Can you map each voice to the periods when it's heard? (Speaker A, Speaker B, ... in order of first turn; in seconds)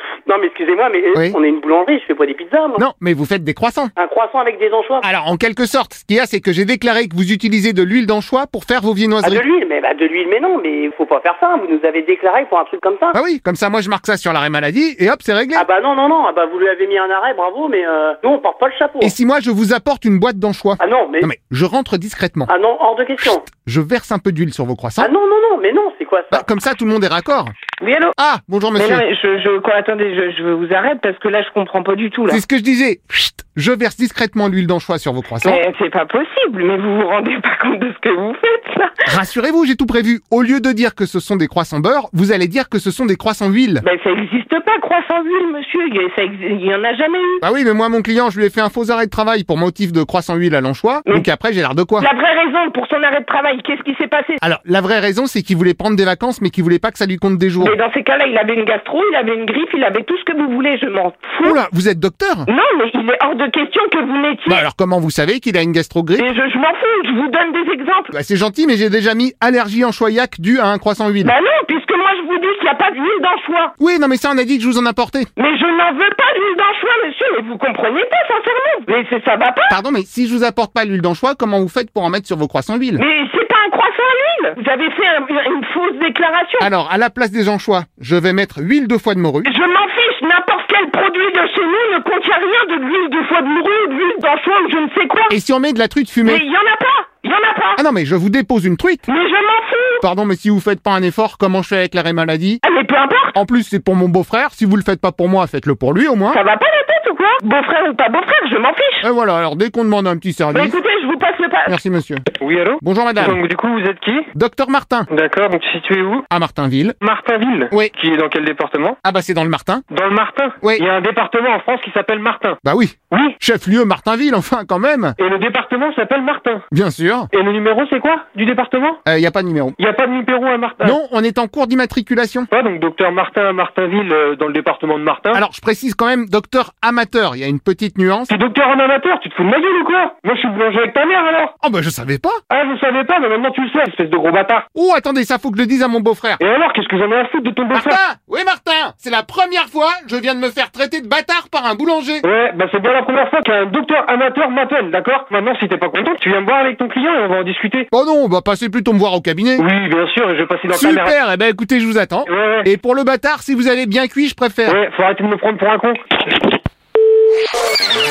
Speaker A: 0.3-2.8, 4.0-5.0, 9.2-13.2, 15.5-19.1, 20.8-21.3, 22.5-23.5, 25.0-26.4
Speaker B: 2.8-3.9, 5.0-9.4, 13.1-15.7, 19.0-22.5, 23.3-25.1, 26.3-27.5, 28.2-29.0, 32.3-35.6, 39.0-43.8, 47.4-52.1, 54.4-57.8, 61.4-62.5, 64.5-66.3, 68.1-71.3, 73.8-75.3, 79.7-83.0, 86.6-89.5, 95.3-96.4, 97.8-99.0, 100.0-102.6, 103.3-106.4, 109.0-110.8, 111.7-112.2, 112.8-113.4, 114.3-115.1, 116.3-117.0, 119.0-119.8, 122.6-125.2, 126.7-127.3, 129.1-129.8, 130.8-132.5, 135.3-138.3, 141.6-142.4, 144.7-146.4, 147.7-152.2, 157.9-159.7, 160.7-164.8
Speaker C: 27.8-28.1, 28.7-32.4, 35.4-38.9, 43.8-47.4, 52.0-54.4, 57.6-61.6, 62.5-64.6, 66.2-68.1, 71.2-73.7, 75.4-79.8, 83.0-86.7, 89.4-95.4, 96.2-97.8, 99.1-100.0, 102.6-103.3, 106.3-109.0, 110.5-111.8
Speaker D: 112.4-114.2, 115.1-116.2, 117.0-119.0, 119.9-122.6, 123.1-123.4, 125.2-126.6, 127.3-129.0, 129.8-131.0, 132.5-135.4, 138.3-141.5, 142.5-144.7, 146.4-148.0, 152.2-157.9, 159.6-161.1, 162.2-162.7, 164.7-166.2